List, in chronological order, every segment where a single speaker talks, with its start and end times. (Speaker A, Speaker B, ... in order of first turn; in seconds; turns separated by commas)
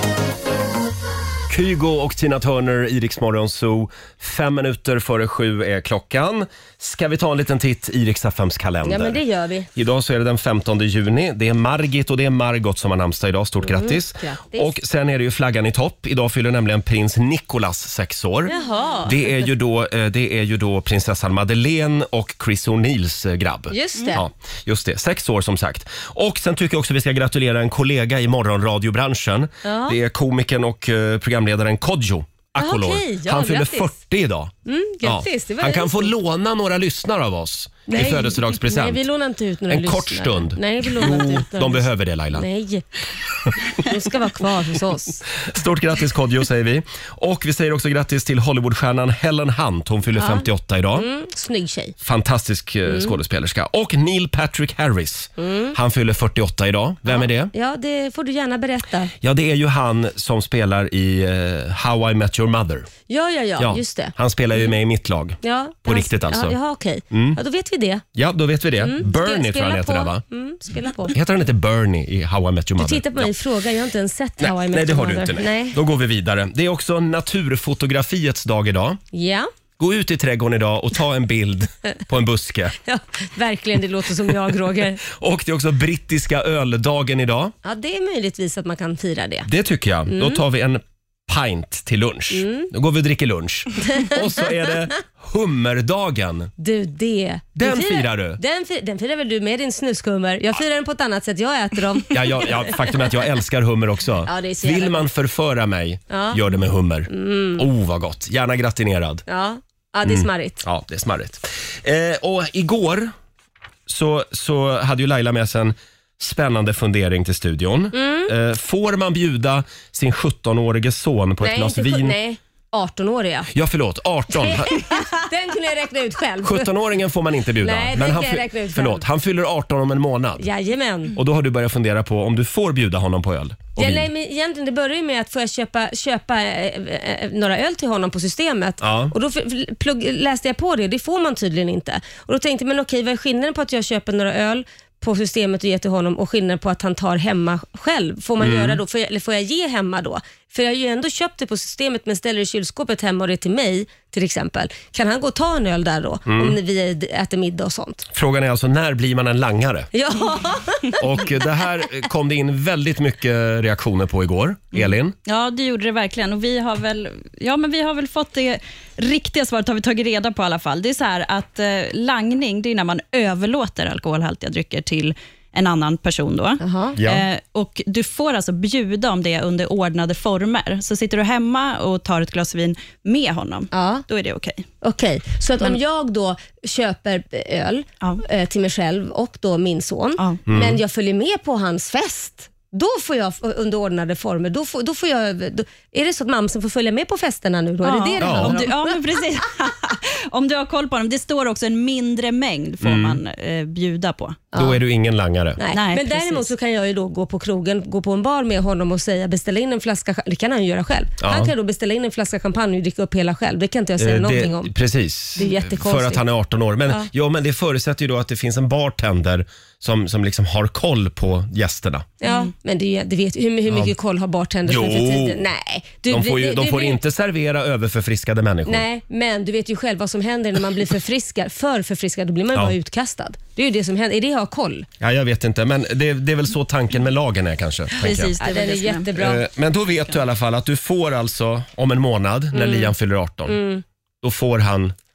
Speaker A: 1.5-9.2, Speaker B: 8.8-9.7, Speaker A: 9.8-18.5, Speaker B: 13.6-14.7, Speaker B: 18.5-19.5, Speaker A: 19.1-39.0, Speaker B: 23.7-24.2, Speaker B: 29.6-30.0, Speaker B: 32.6-34.0, Speaker B: 34.7-36.1, Speaker B: 37.9-42.9, Speaker A: 39.7-42.5, Speaker B: 43.7-45.2, Speaker A: 45.4-51.1, Speaker B: 50.2-52.0, Speaker A: 52.0-57.5, Speaker B: 52.9-53.1, Speaker B: 55.4-55.8, Speaker B: 57.1-59.1, Speaker A: 59.2-62.9, Speaker B: 63.1-64.2, Speaker A: 63.6-66.6, Speaker B: 65.4-68.0, Speaker A: 67.1-67.4, Speaker A: 68.2-70.2, Speaker B: 68.8-71.2, Speaker A: 71.1-73.3, Speaker B: 72.8-75.8, Speaker A: 74.4-79.0, Speaker B: 79.1-79.5, Speaker A: 79.8-82.8, Speaker B: 82.8-85.0, Speaker A: 85.0-87.5, Speaker B: 87.6-89.5, Speaker A: 89.5-96.5, Speaker B: 90.1-90.4, Speaker B: 92.3-92.7, Speaker B: 93.9-94.3, Speaker B: 96.6-102.7, Speaker A: 97.6-98.4, Speaker A: 102.1-109.2, Speaker B: 104.3-105.1, Speaker B: 106.1-106.4, Speaker B: 107.1-107.7, Speaker B: 109.3-110.6, Speaker A: 110.0-113.1, Speaker A: 113.9-122.2, Speaker B: 117.9-118.3, Speaker B: 121.4-123.5, Speaker A: 123.5-124.9, Speaker B: 124.3-126.7, Speaker A: 126.4-130.5, Speaker B: 127.6-129.0, Speaker B: 130.4-131.2, Speaker A: 131.1-134.1, Speaker B: 133.8-158.1, Speaker A: 138.8-139.1, Speaker A: 148.4-148.8, Speaker A: 156.3-156.6, Speaker A: 158.1-159.9, Speaker B: 159.9-161.0, Speaker A: 161.0-165.2, Speaker C: 165.3-184.7, Speaker B: 176.6-177.0, Speaker A: 177.0-177.3, Speaker B: 183.7-184.0, Speaker B: 184.8-199.0, Speaker A: 190.5-190.8, Speaker C: 197.8-204.4, Speaker A: 198.2-198.7, Speaker A: 202.8-203.2, Speaker B: 204.5-204.8, Speaker A: 204.6-205.6, Speaker B: 205.6-214.7, Speaker C: 205.7-206.5, Speaker A: 211.2-211.5, Speaker A: 214.0-222.1, Speaker B: 215.4-216.2, Speaker B: 222.2-227.0, Speaker C: 222.2-222.5, Speaker A: 224.7-225.4, Speaker A: 226.1-228.8, Speaker B: 228.7-234.9, Speaker A: 235.0-238.4, Speaker C: 238.0-239.1, Speaker B: 238.4-239.4, Speaker A: 239.2-243.6, Speaker B: 242.5-242.9, Speaker B: 243.5-243.8, Speaker A: 244.2-244.9